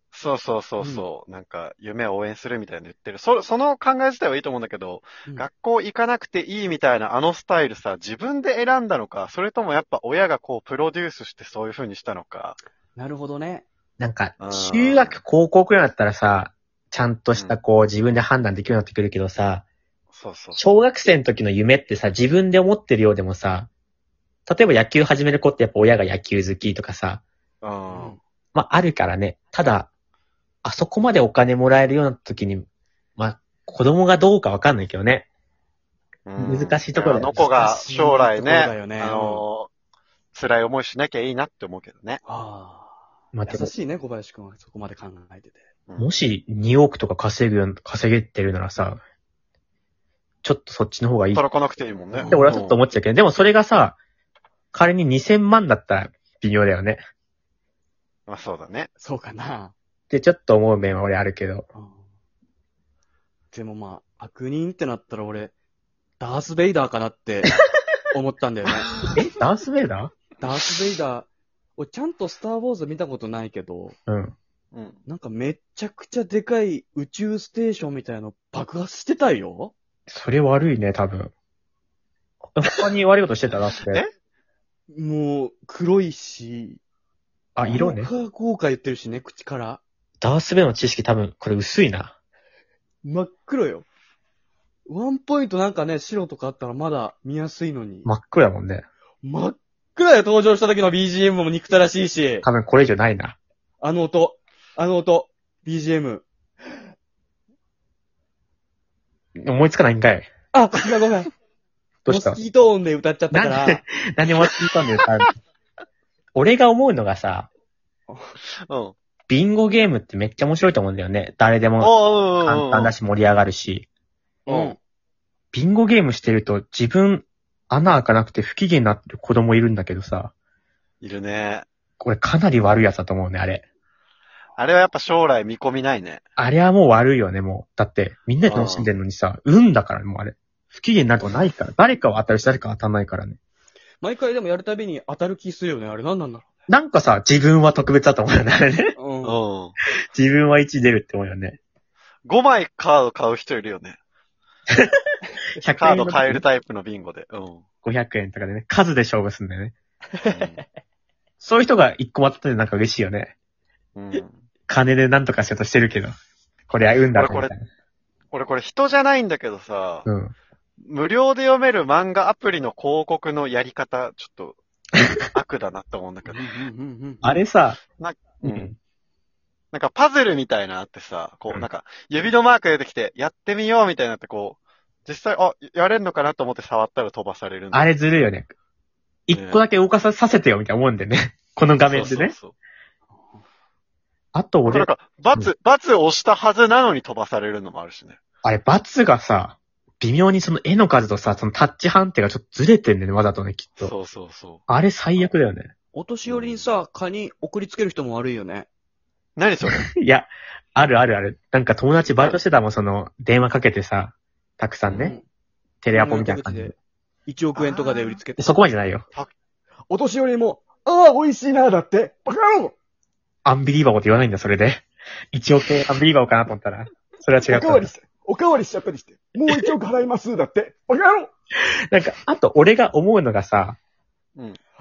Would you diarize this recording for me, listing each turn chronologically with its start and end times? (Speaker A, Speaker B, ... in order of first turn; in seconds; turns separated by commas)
Speaker A: 0.1-12.6, Speaker B: 0.8-1.1, Speaker B: 12.9-13.7, Speaker C: 14.0-19.6, Speaker A: 14.4-15.2, Speaker A: 20.1-20.6, Speaker C: 20.6-23.7, Speaker C: 24.4-27.2, Speaker A: 27.6-28.2, Speaker B: 27.9-28.2, Speaker C: 28.5-29.9, Speaker C: 30.6-35.3, Speaker A: 36.2-39.7, Speaker C: 36.4-37.5, Speaker B: 37.3-39.4, Speaker A: 40.3-42.2, Speaker B: 42.2-45.6, Speaker C: 43.3-43.7, Speaker C: 46.0-49.0, Speaker C: 50.4-51.4, Speaker A: 51.3-52.8, Speaker B: 52.1-52.5, Speaker C: 52.3-54.0, Speaker C: 54.7-57.0, Speaker A: 58.3-58.9, Speaker B: 59.0-59.7, Speaker C: 60.1-61.7, Speaker B: 61.7-62.0, Speaker B: 63.5-65.5, Speaker B: 66.2-67.5, Speaker B: 68.1-69.0, Speaker C: 69.1-70.1, Speaker B: 70.4-74.0, Speaker C: 74.1-74.3, Speaker A: 74.7-75.0, Speaker B: 75.1-79.7, Speaker C: 80.1-81.3, Speaker C: 82.5-84.0, Speaker A: 83.8-84.1, Speaker B: 84.9-86.8, Speaker C: 87.5-88.1, Speaker B: 87.7-89.8, Speaker C: 90.2-92.1, Speaker B: 93.0-93.8, Speaker B: 94.9-98.1, Speaker C: 98.0-98.8, Speaker B: 99.2-102.5, Speaker C: 102.4-103.4, Speaker B: 103.8-106.3, Speaker C: 109.4-110.3, Speaker B: 110.5-111.3, Speaker C: 112.0-112.4, Speaker B: 112.1-113.8, Speaker C: 113.3-115.3, Speaker C: 116.3-117.5, Speaker A: 118.7-118.9, Speaker C: 119.3-123.8, Speaker A: 121.8-122.9, Speaker B: 124.5-124.8, Speaker A: 124.5-124.8, Speaker C: 125.5-130.3, Speaker A: 131.0-131.7, Speaker C: 132.0-133.6, Speaker A: 134.6-136.2, Speaker C: 136.4-143.4, Speaker A: 138.4-138.9, Speaker B: 144.0-146.4, Speaker C: 146.7-148.9, Speaker B: 149.0-149.4, Speaker A: 149.2-149.8, Speaker C: 150.1-151.6, Speaker A: 152.2-154.0, Speaker C: 155.6-156.4, Speaker A: 155.7-157.6, Speaker C: 157.8-159.7, Speaker A: 160.3-160.6, Speaker C: 161.4-163.3, Speaker A: 163.9-164.4, Speaker C: 164.7-166.1, Speaker C: 166.7-167.7, Speaker A: 167.1-167.5, Speaker A: 168.3-170.1, Speaker C: 170.1-170.3, Speaker A: 170.8-174.6, Speaker A: 175.3-176.5, Speaker B: 176.2-177.2, Speaker C: 177.2-177.8, Speaker A: 178.0-178.7, Speaker C: 178.4-178.8, Speaker A: 179.7-187.8, Speaker C: 187.7-188.5, Speaker C: 189.3-192.3, Speaker A: 189.3-189.6, Speaker A: 191.8-192.5, Speaker B: 193.1-193.4, Speaker C: 194.3-195.5, Speaker A: 194.7-198.2, Speaker C: 198.4-203.9, Speaker A: 203.8-204.6, Speaker C: 204.7-205.7, Speaker B: 205.9-208.7, Speaker A: 206.2-206.7, Speaker A: 209.4-209.8, Speaker C: 209.7-215.2, Speaker A: 214.9-215.2, Speaker B: 214.9-215.2, Speaker C: 215.8-216.8, Speaker B: 215.9-216.7, Speaker B: 217.3-218.5, Speaker A: 217.5-218.2, Speaker C: 218.4-219.0, Speaker B: 219.9-222.7, Speaker C: 223.4-227.9, Speaker B: 227.5-231.3, Speaker C: 231.9-233.8